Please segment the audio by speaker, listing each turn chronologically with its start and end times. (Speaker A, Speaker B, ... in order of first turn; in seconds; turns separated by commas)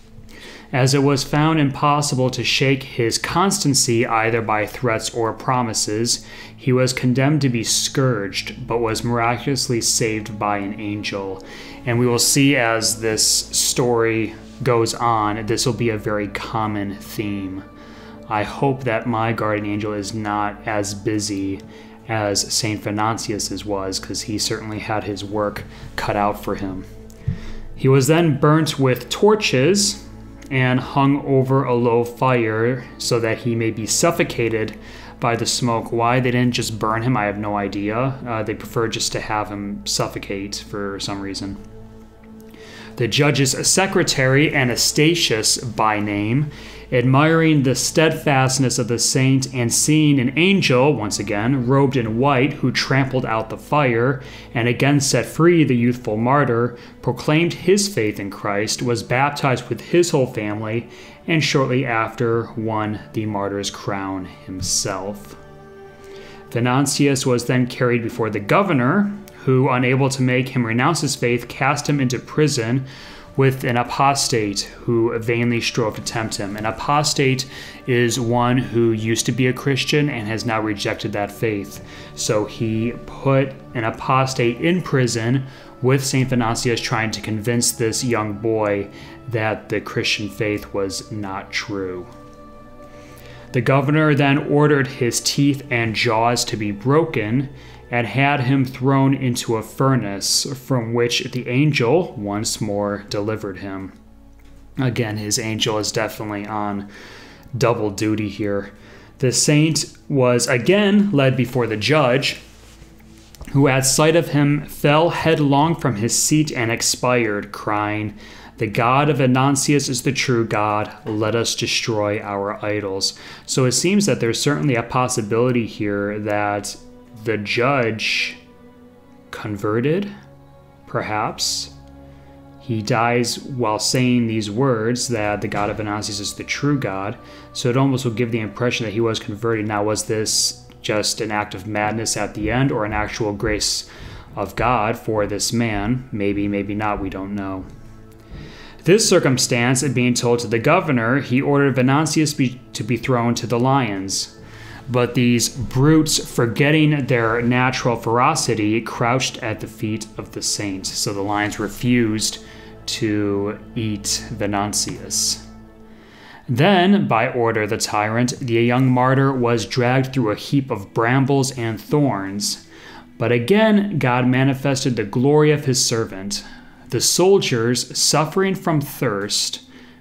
Speaker A: 0.7-17.7, Speaker A: 18.3-26.9, Speaker A: 27.8-41.6, Speaker A: 43.0-65.4, Speaker A: 66.5-92.1, Speaker A: 93.5-104.0, Speaker A: 104.8-106.9, Speaker A: 107.5-112.4, Speaker A: 113.5-128.4, Speaker A: 129.3-130.1, Speaker A: 130.9-131.7, Speaker A: 132.6-147.7, Speaker A: 148.8-154.3, Speaker A: 154.9-165.4, Speaker A: 166.5-172.6, Speaker A: 173.2-179.6